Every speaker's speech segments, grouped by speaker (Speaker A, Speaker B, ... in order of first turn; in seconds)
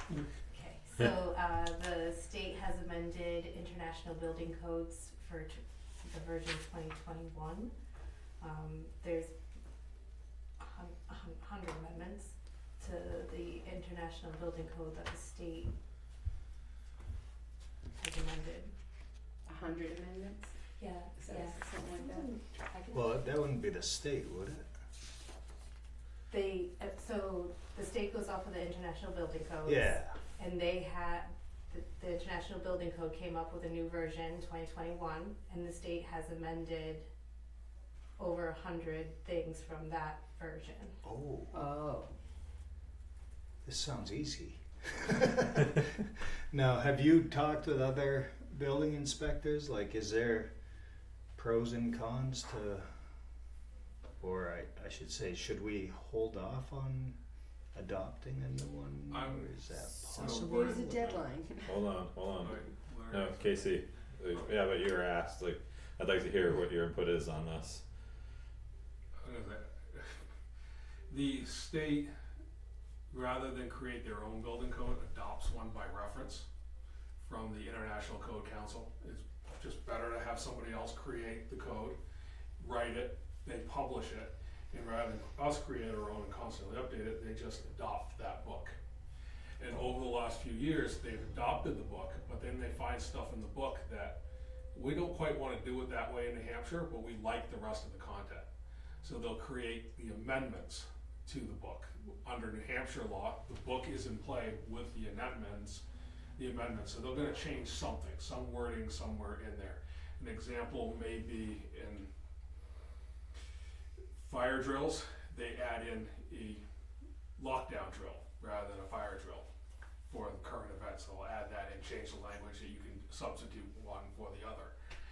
Speaker A: 0.5-7.7, 8.4-9.3, 10.6-15.7, 18.0-18.7, 20.8-21.6, 22.7-23.0, 26.3-37.1, 38.2-40.9
Speaker B: 19.4-22.3, 41.5-42.1, 60.1-61.7
Speaker C: 22.9-24.6, 29.6-30.2, 41.0-41.5, 43.6-46.0, 46.5-50.5, 51.4-52.9, 54.2-57.2, 57.7-61.0
Speaker D: 59.1-61.2, 62.4-63.8, 69.2-70.2, 71.1-72.1, 73.1-76.5, 77.2-82.0, 82.6-88.8, 89.6-94.2, 94.7-98.5, 99.0-105.8, 106.4-112.1, 114.2-116.6, 117.4-119.5, 120.1-124.7
Speaker E: 61.7-62.5, 63.1-67.8